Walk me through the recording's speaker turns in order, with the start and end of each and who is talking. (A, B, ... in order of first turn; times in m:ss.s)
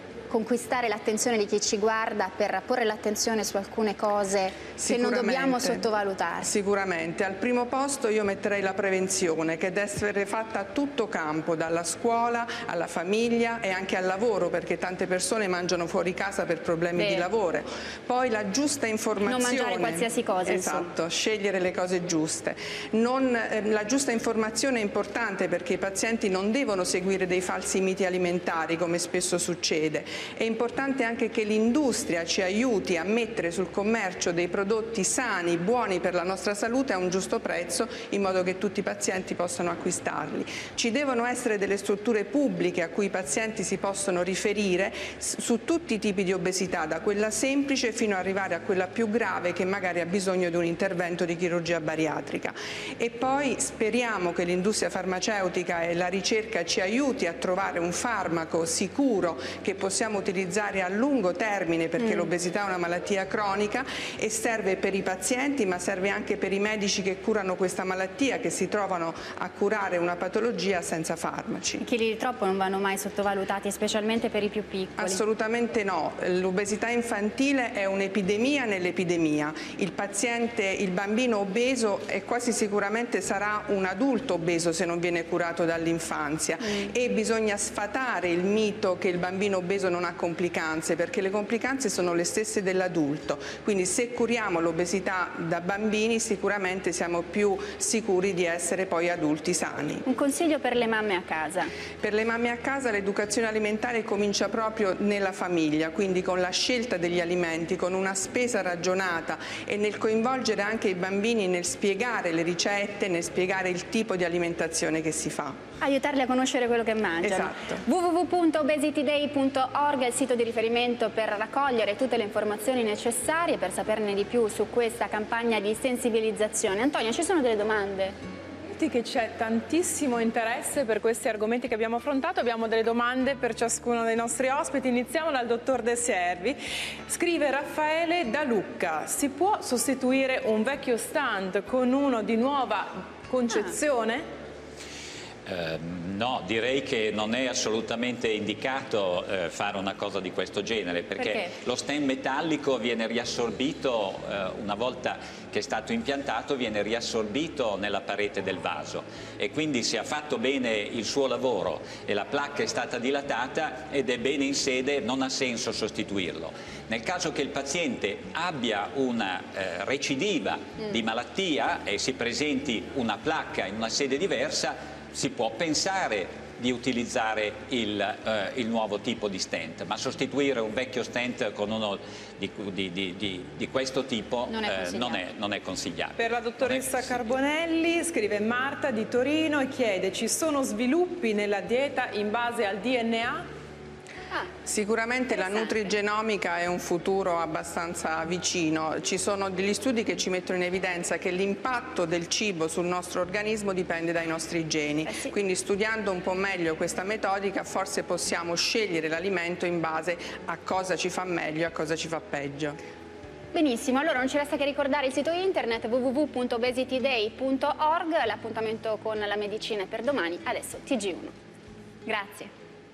0:00.3-0:06.5 A
0:04.8-0:05.9 B
0:06.4-1:11.8 B
0:17.0-0:17.3 A
0:19.2-0:20.9 A
1:02.0-1:02.3 A
1:11.8-1:15.2 A
1:15.0-1:40.0 B
1:40.0-1:41.7 A
1:42.0-1:55.6 B
1:55.8-2:08.2 A
1:57.2-1:57.8 B
2:08.7-2:24.2 C
2:23.5-2:23.8 A
2:25.4-3:07.3 D
3:04.5-3:05.2 A
3:06.2-3:13.4 C
3:14.6-3:32.8 B
3:15.3-3:15.9 A
3:25.1-3:25.3 A
3:33.5-3:41.3 A
3:42.0-3:42.5 A